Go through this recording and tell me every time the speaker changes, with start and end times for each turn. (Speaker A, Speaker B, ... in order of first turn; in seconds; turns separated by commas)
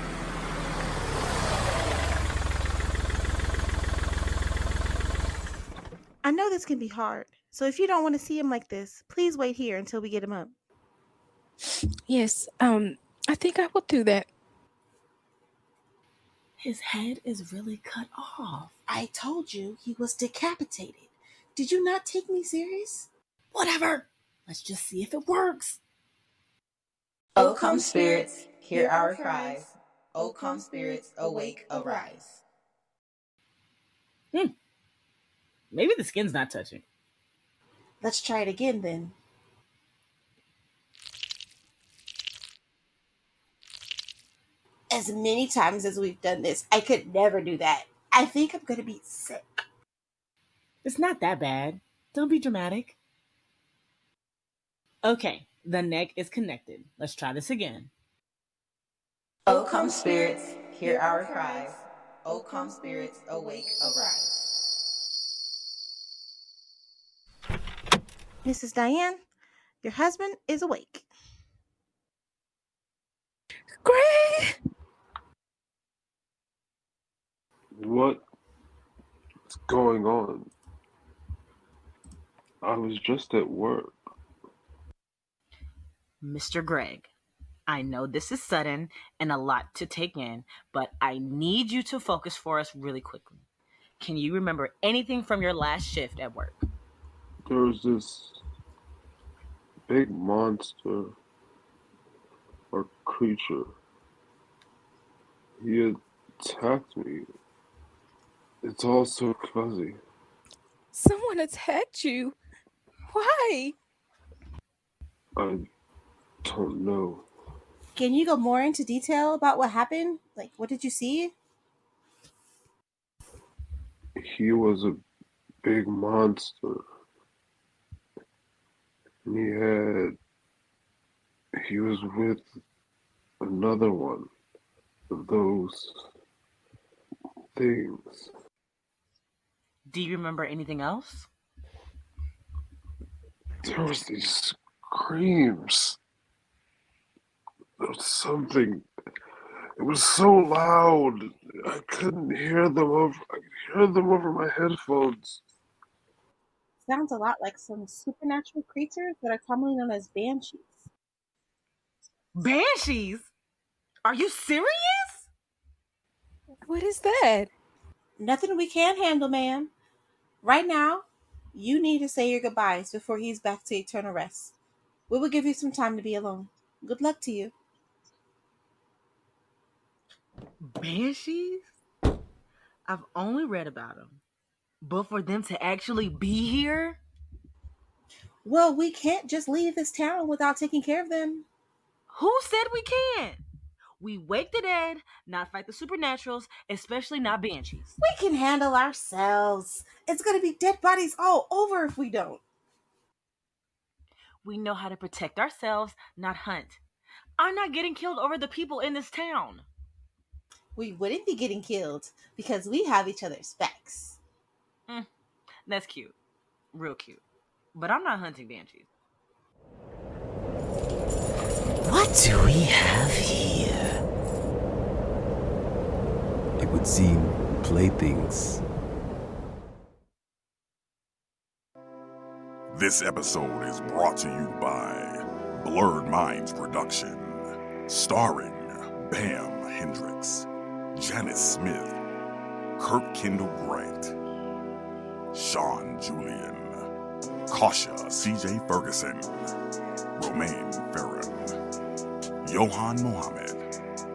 Speaker A: 6.2-10.5, Speaker B: 12.1-14.3, Speaker C: 16.6-18.7, Speaker A: 18.9-21.1, Speaker C: 20.1-20.8, Speaker C: 21.6-22.9, Speaker C: 23.5-25.8, Speaker A: 27.4-29.6, Speaker D: 27.4-32.4, Speaker A: 30.9-32.1, Speaker C: 35.7-36.8, Speaker A: 38.0-39.1, Speaker A: 44.9-49.6, Speaker C: 50.8-53.0, Speaker C: 55.0-57.9, Speaker D: 59.5-64.4, Speaker A: 68.4-69.2, Speaker A: 69.8-71.0, Speaker B: 73.8-74.5, Speaker E: 77.8-78.2, Speaker E: 79.5-80.5, Speaker E: 82.6-83.9, Speaker C: 86.2-87.1, Speaker C: 87.7-93.4, Speaker C: 94.0-96.6, Speaker E: 97.5-98.4, Speaker E: 99.9-101.1, Speaker E: 102.7-103.6, Speaker E: 105.6-107.2, Speaker E: 108.6-110.0, Speaker B: 110.9-112.4, Speaker B: 113.1-113.8, Speaker E: 116.4-117.2, Speaker A: 117.9-121.3, Speaker E: 124.2-125.0, Speaker E: 125.6-126.7, Speaker E: 129.2-130.2, Speaker E: 131.6-132.4, Speaker E: 133.4-134.3, Speaker E: 135.1-135.9, Speaker E: 137.6-138.3, Speaker C: 139.9-141.3, Speaker E: 143.6-146.0, Speaker E: 147.8-148.8, Speaker E: 149.8-155.4, Speaker A: 156.8-160.7, Speaker C: 162.3-163.3, Speaker C: 164.0-165.3, Speaker B: 166.7-167.5, Speaker A: 168.2-169.7, Speaker A: 170.4-174.6, Speaker A: 175.1-177.5, Speaker C: 180.6-181.7, Speaker C: 182.9-184.2, Speaker C: 184.8-187.0, Speaker A: 188.4-191.4, Speaker C: 192.1-193.4, Speaker C: 194.0-197.9, Speaker A: 198.0-202.4, Speaker C: 204.4-206.8, Speaker C: 207.4-209.7, Speaker A: 210.8-214.2, Speaker C: 215.7-216.2, Speaker C: 216.7-217.2, Speaker C: 217.7-218.9, Speaker F: 221.8-224.0, Speaker G: 226.6-228.6, Speaker H: 232.7-242.0, Speaker H: 242.8-244.1, Speaker H: 245.3-246.8, Speaker H: 247.5-249.3, Speaker H: 250.2-251.5, Speaker H: 252.4-253.6